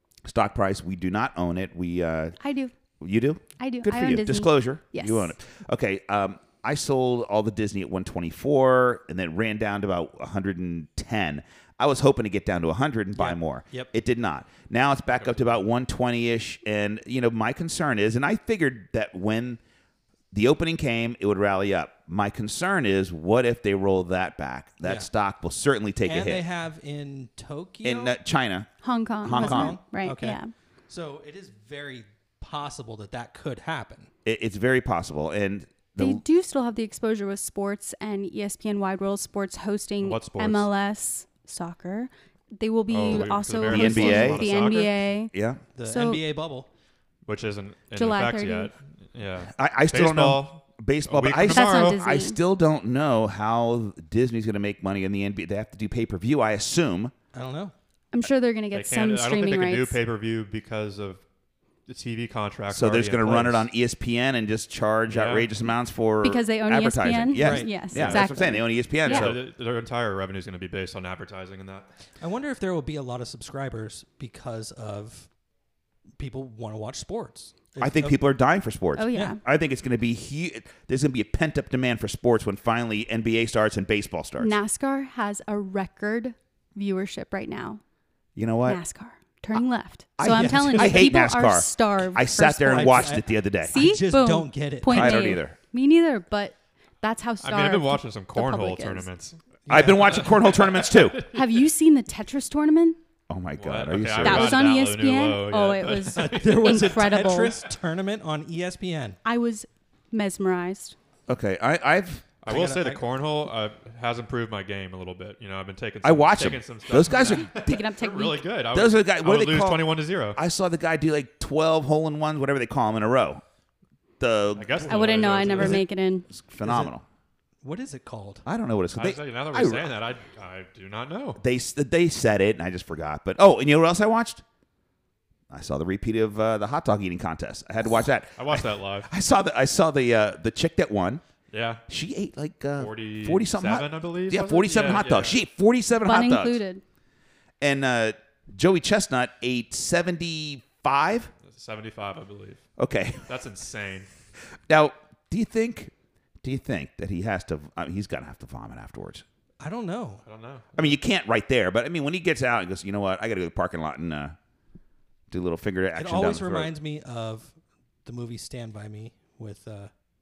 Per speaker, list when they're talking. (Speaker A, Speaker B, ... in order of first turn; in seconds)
Speaker A: 0.2-2.4, 3.0-19.6, 20.3-26.4, 27.8-29.8, 34.2-36.2, 43.1-44.5, 45.3-45.6, 49.5-57.1, 62.7-69.4, 77.8-84.5, 88.3-88.8, 90.2-93.7, 94.9-95.5, 99.7-101.2, 103.3-104.7, 111.3-112.2, 116.0-117.8, 118.7-123.4, 124.2-127.0, 128.4-129.9, 131.4-134.4, 135.5-141.2, 141.9-146.6, 147.6-151.3, 152.8-153.3, 154.7-155.9, 156.4-159.2, 160.8-164.3, 165.3-166.7
Speaker B: 2.4-2.7, 3.6-5.3, 28.8-30.5, 36.0-45.3, 45.8-46.2, 47.9-48.7, 51.5-52.4, 58.1-60.0, 66.2-69.3, 79.0-79.4, 84.4-87.8, 88.6-99.1, 101.3-103.0, 104.2-107.6, 109.2-111.0, 117.5-118.4, 124.9-126.3, 146.0-146.8
Speaker C: 13.2-13.9, 26.0-28.1, 29.3-34.1, 45.7-46.7, 57.3-57.7, 67.4-67.8, 72.2-75.3, 76.2-78.2, 90.2-91.1, 92.7-95.4, 99.7-100.4, 106.1-109.2, 112.5-113.0, 126.6-126.9, 127.6-128.4, 159.6-160.2, 165.9-169.9
Speaker D: 15.2-15.4, 40.0-40.7, 42.9-45.0, 47.2-52.0, 58.7-61.2, 61.9-63.7, 65.1-65.5, 67.9-68.2, 69.0-71.9, 97.4-101.4, 103.6-106.9, 112.4-120.4, 124.5-125.8, 128.9-131.4, 138.4-139.1, 141.5-141.8, 142.8-145.4, 151.4-152.6, 153.2-154.1, 160.2-160.7